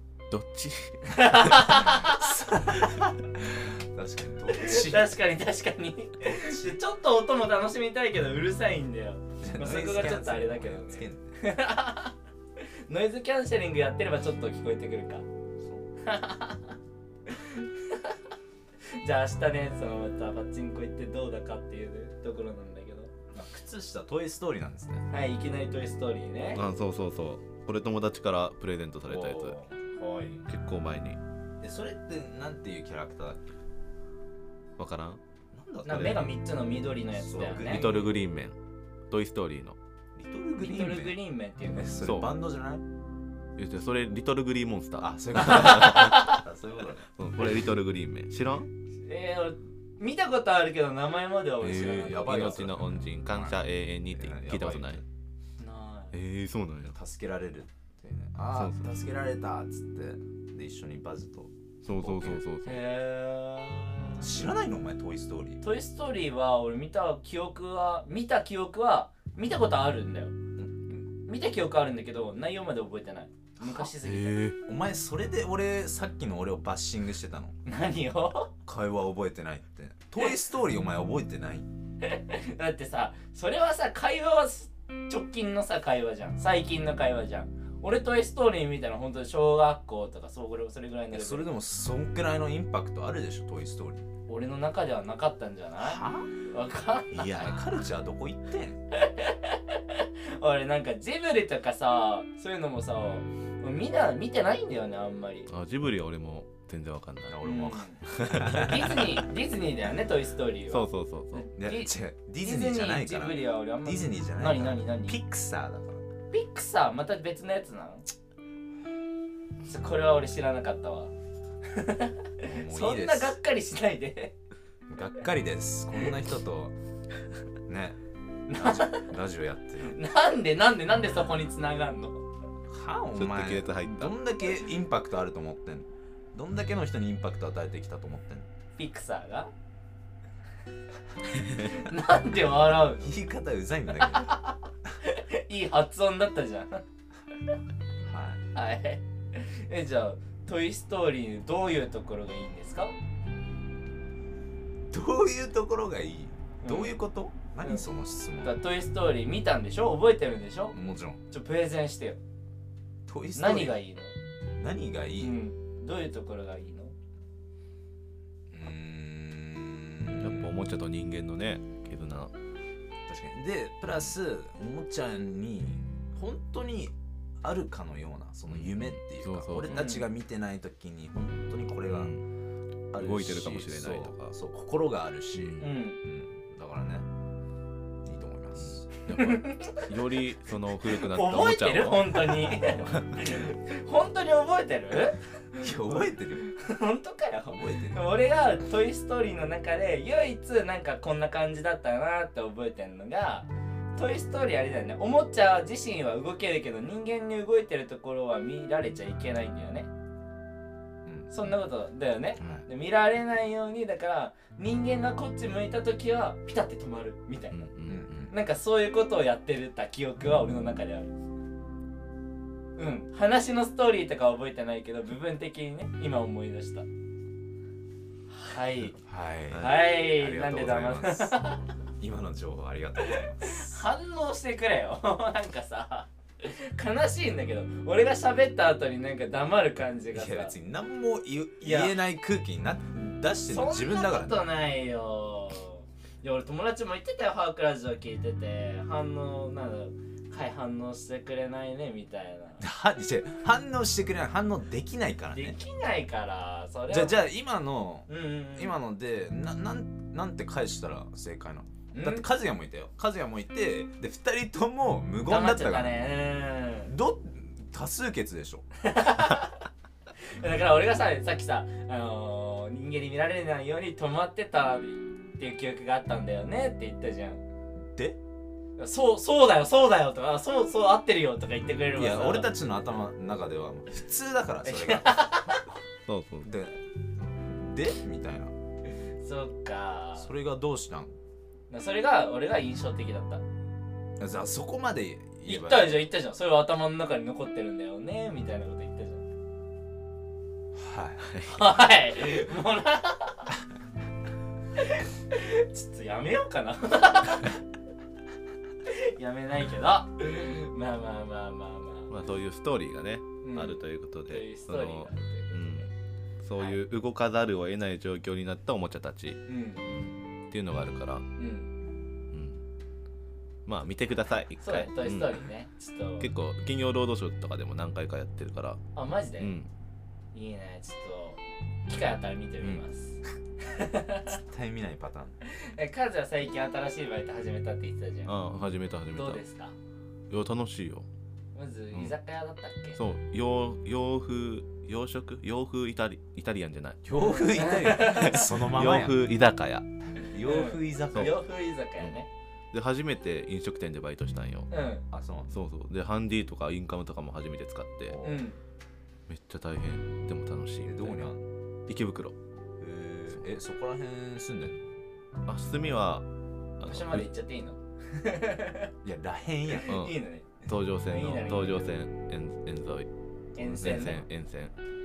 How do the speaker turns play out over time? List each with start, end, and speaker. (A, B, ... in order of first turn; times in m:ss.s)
0:00.3-0:01.9 A
0:01.1-0:02.7 B
0:02.1-0:05.2 C
0:04.5-0:15.2 B
0:06.3-0:06.8 C
0:09.4-0:11.4 C
0:15.6-0:15.9 C
0:16.0-0:16.7 B
0:17.3-0:18.2 B
0:19.0-0:23.1 B
0:23.3-0:25.1 C
0:25.1-0:26.6 B
0:26.6-0:29.6 A
0:29.1-0:30.4 C
0:30.5-0:31.2 A
0:31.6-0:33.6 C
0:34.8-0:35.2 A
0:35.5-0:36.2 C
0:35.8-0:37.8 B
0:35.9-0:36.2 A
0:37.2-0:38.2 C
0:37.6-0:38.6 A
0:39.1-0:39.8 A
0:40.2-0:41.2 C
0:40.6-0:42.0 B
0:41.7-0:42.9 C
0:42.0-0:42.3 A
0:43.6-0:46.3 A
0:45.0-0:47.1 C
0:45.4-0:46.4 B
0:47.2-0:48.7 A
0:49.0-0:52.7 B
0:51.6-0:55.0 A
0:51.8-0:55.0 C
0:55.6-0:56.1 B
0:56.1-0:57.0 A
0:56.9-1:02.4 C
0:58.5-0:58.9 A
1:01.8-1:02.8 A
1:02.6-1:04.3 B
1:04.2-1:05.6 C
1:05.6-1:10.4 B
1:10.9-1:14.4 B
1:14.0-1:14.6 A
1:14.6-1:17.6 C
1:17.7-1:18.5 B
1:18.6-1:21.7 C
1:22.0-1:31.5 B
1:31.1-1:34.1 C
1:34.3-1:37.6 B
1:35.8-1:36.3 C
1:37.1-1:37.6 A
1:37.3-1:38.8 C
1:38.9-1:45.5 B
1:45.5-1:47.4 A
1:47.3-1:49.2 C
1:47.4-1:55.2 B
1:48.1-1:48.7 A
1:50.7-1:51.5 A
1:51.6-1:56.1 C
1:56.3-1:58.1 B
1:59.6-2:01.1 B
2:01.7-2:04.4 B
2:02.4-2:03.4 C
2:04.9-2:06.7 C
2:07.7-2:08.0 C
2:08.5-2:09.1 B
2:08.5-2:10.0 C
2:09.8-2:12.2 B
2:12.7-2:18.5 C
2:13.2-2:14.2 A
2:18.8-2:19.5 B
2:21.5-2:23.2 B
2:23.0-2:24.3 C
2:24.0-2:26.8 B
2:28.0-2:28.4 C
2:28.5-2:33.0 B
2:34.9-2:38.6 C
2:36.6-2:37.0 B
2:38.4-2:40.8 B
2:40.7-2:41.2 C
2:41.3-2:42.2 B
2:43.1-2:43.8 C
2:43.4-2:44.1 B
2:44.6-2:45.4 C
2:45.2-2:46.9 B
2:48.5-2:50.5 C
2:50.2-2:52.3 A
2:53.1-3:02.2 C
2:58.5-2:59.8 A
2:59.7-3:00.1 B
3:01.9-3:02.2 A
3:02.9-3:07.1 C
3:03.0-3:04.3 A
3:05.4-3:05.7 A
3:05.6-3:06.0 B
3:08.0-3:08.9 C
3:08.7-3:13.2 A
3:09.1-3:09.9 B
3:10.9-3:15.7 B
3:15.6-3:16.4 C
3:16.4-3:29.9 B
3:17.5-3:18.1 C
3:31.0-3:31.3 C
3:31.3-3:37.7 B
3:32.4-3:32.7 C
3:37.5-3:38.2 A
3:37.9-3:38.4 C
3:38.3-3:41.1 B
3:42.8-3:46.9 B
3:48.3-3:49.0 B
3:49.0-3:53.9 C
3:49.5-3:49.8 A
3:49.6-3:51.6 B
3:53.0-4:00.5 B
4:00.1-4:04.4 C
4:01.6-4:02.0 B
4:03.5-4:12.7 B
4:12.6-4:15.6 C
4:15.3-4:17.2 B
4:16.9-4:26.1 C
4:18.1-4:18.8 B
4:21.9-4:22.3 B
4:25.3-4:26.9 B
4:26.8-4:28.7 C
4:28.8-4:29.6 B
4:30.3-4:37.4 B
4:37.8-4:38.2 C
4:38.8-4:42.5 B
4:42.0-4:45.5 C
4:44.6-4:45.7 B
4:46.1-4:46.5 A
4:46.4-4:48.5 C
4:49.0-4:50.3 B
4:50.2-4:51.1 C
4:51.7-4:53.4 B
4:54.2-4:56.1 C
4:55.4-4:59.2 B
5:00.7-5:01.3 C
5:01.3-5:01.6 A
5:01.5-5:03.6 B
5:04.8-5:07.6 B
5:08.9-5:12.1 B
5:12.1-5:15.9 A
5:13.4-5:15.9 B
5:16.4-5:21.3 A
5:19.5-5:19.9 B
5:21.4-5:21.7 B
5:22.3-5:22.6 A
5:23.7-5:25.4 A
5:24.6-5:26.3 B
5:26.2-5:28.8 A
5:29.0-5:29.5 B
5:29.4-5:29.7 A
5:30.3-5:34.4 B
5:34.3-5:35.4 C
5:35.4-5:38.3 B
5:38.3-5:39.4 A
5:39.1-5:39.7 B
5:40.3-5:41.1 A
5:41.6-5:43.0 B
5:43.0-5:47.0 A
5:47.0-5:49.2 C
5:47.1-5:48.5 B
5:47.9-5:49.9 A
5:50.2-5:52.3 B
5:50.3-5:51.4 C
5:52.7-5:54.7 A
5:54.7-5:55.0 B
5:55.1-5:55.5 C
5:55.5-5:58.2 A
5:58.1-5:58.4 C
5:58.2-5:58.6 B
5:59.3-6:01.3 A
6:00.8-6:01.4 C
6:01.9-6:02.4 A
6:02.8-6:04.8 C
6:05.5-6:06.2 A
6:06.8-6:07.3 A
6:06.8-6:08.9 B
6:09.0-6:09.9 C
6:09.7-6:10.5 B
6:09.9-6:13.1 A
6:11.1-6:11.9 B
6:13.6-6:14.3 B
6:13.6-6:14.7 A